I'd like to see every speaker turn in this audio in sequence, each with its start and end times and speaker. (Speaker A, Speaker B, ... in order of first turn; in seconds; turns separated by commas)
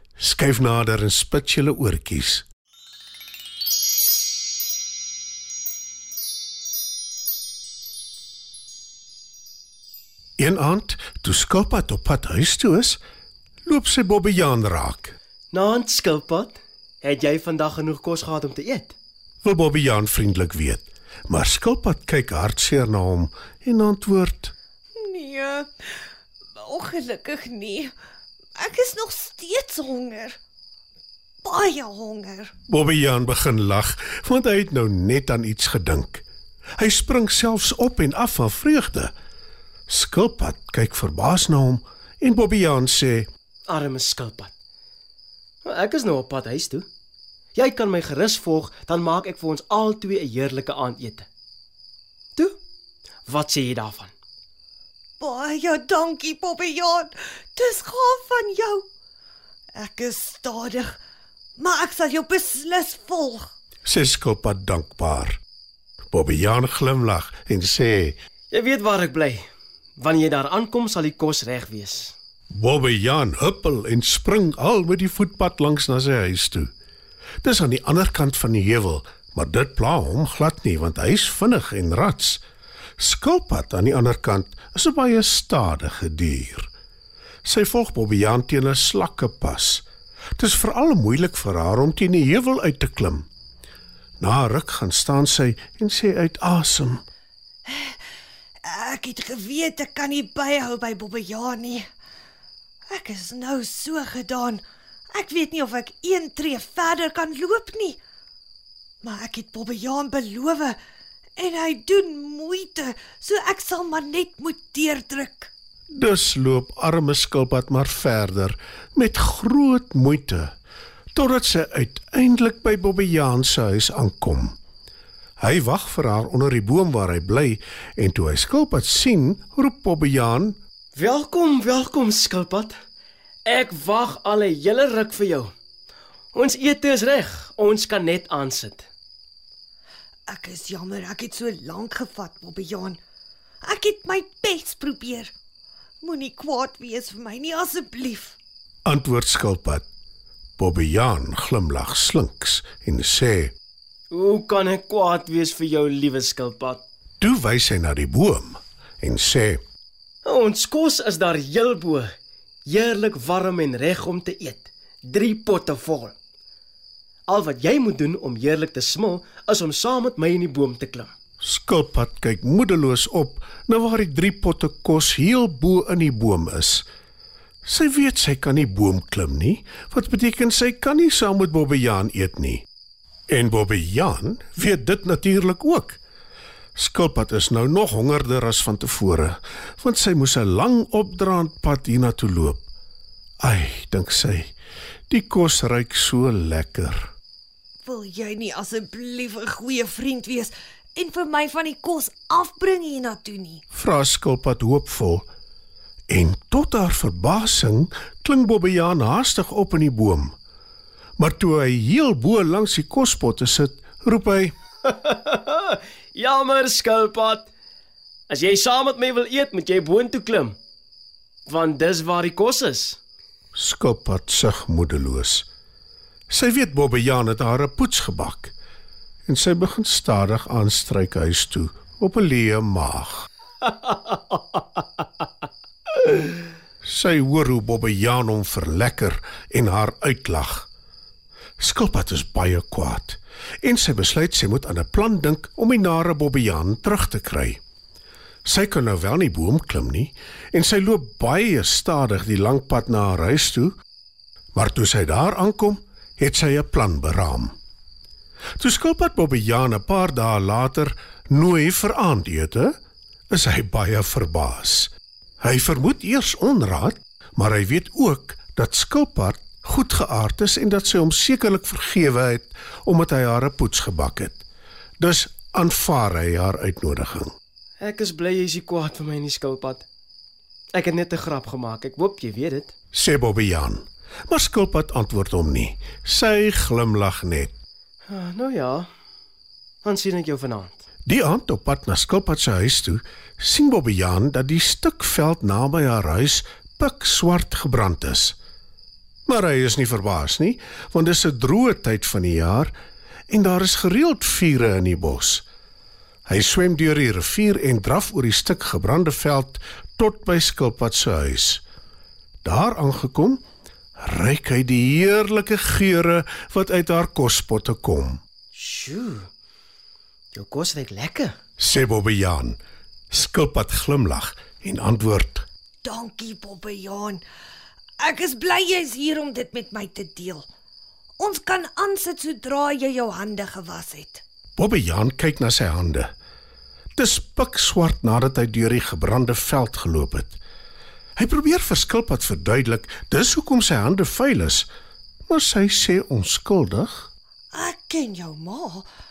Speaker A: 0.2-2.5, Speaker A: 10.4-13.0, Speaker A: 13.7-15.2, Speaker B: 15.5-18.9, Speaker A: 19.4-24.5, Speaker C: 25.0-26.0, Speaker C: 26.6-27.9, Speaker C: 28.6-30.4, Speaker C: 31.4-32.5, Speaker A: 32.7-36.2, Speaker A: 36.8-39.1, Speaker A: 39.9-43.3, Speaker B: 43.7-44.5, Speaker B: 45.6-46.9, Speaker B: 47.5-51.3, Speaker B: 53.3-54.1, Speaker C: 55.2-58.9, Speaker C: 59.8-61.0, Speaker C: 61.6-63.5, Speaker A: 63.9-65.4, Speaker A: 66.1-68.2, Speaker B: 68.5-69.4, Speaker B: 70.0-72.2, Speaker A: 72.5-76.7, Speaker A: 77.4-82.4, Speaker A: 83.0-86.7, Speaker A: 87.5-89.8, Speaker A: 90.4-93.3, Speaker A: 94.2-97.0, Speaker C: 97.7-98.0, Speaker C: 98.6-101.8, Speaker C: 102.9-108.0, Speaker C: 109.0-110.8, Speaker C: 111.4-115.5, Speaker A: 115.9-120.5, Speaker A: 121.2-124.5, Speaker A: 125.4-130.6, Speaker B: 131.0-132.7, Speaker B: 133.4-135.5, Speaker B: 136.3-138.9, Speaker C: 140.3-143.0, Speaker C: 143.6-145.3, Speaker C: 146.0-148.4, Speaker A: 148.9-149.9, Speaker A: 150.6-153.5, Speaker B: 154.1-156.8, Speaker A: 157.2-159.6, Speaker B: 160.2-162.1, Speaker B: 162.7-166.2, Speaker B: 167.3-171.1, Speaker A: 171.4-176.9, Speaker A: 177.7-182.6, Speaker A: 183.3-186.0, Speaker A: 186.8-192.7, Speaker A: 193.4-194.5, Speaker A: 195.1-197.1, Speaker C: 197.8-203.6, Speaker A: 203.7-205.3, Speaker A: 206.1-210.3, Speaker A: 211.2-214.5, Speaker B: 214.9-217.5, Speaker B: 218.3-220.6, Speaker B: 221.5-223.0, Speaker A: 223.6-225.5, Speaker A: 226.3-228.5, Speaker A: 229.3-233.3, Speaker A: 236.8-240.7, Speaker A: 241.6-247.6, Speaker A: 248.4-253.8, Speaker A: 254.5-257.5, Speaker A: 258.6-262.8, Speaker A: 263.3-274.4, Speaker A: 275.0-277.4, Speaker B: 277.8-279.9, Speaker B: 280.7-282.7, Speaker A: 282.9-287.5, Speaker B: 288.1-288.9, Speaker B: 289.8-290.8, Speaker A: 291.1-298.4, Speaker A: 299.3-302.7, Speaker A: 303.3-305.4, Speaker A: 306.3-311.6, Speaker A: 312.4-313.4, Speaker A: 314.0-318.2, Speaker B: 318.6-319.3, Speaker B: 320.3-321.4, Speaker A: 321.6-322.6, Speaker A: 323.1-325.5, Speaker C: 325.8-327.2, Speaker C: 328.0-330.5, Speaker C: 331.2-334.2, Speaker A: 334.6-336.1, Speaker A: 337.0-340.4, Speaker A: 341.2-344.7, Speaker A: 345.3-347.1, Speaker C: 347.5-348.9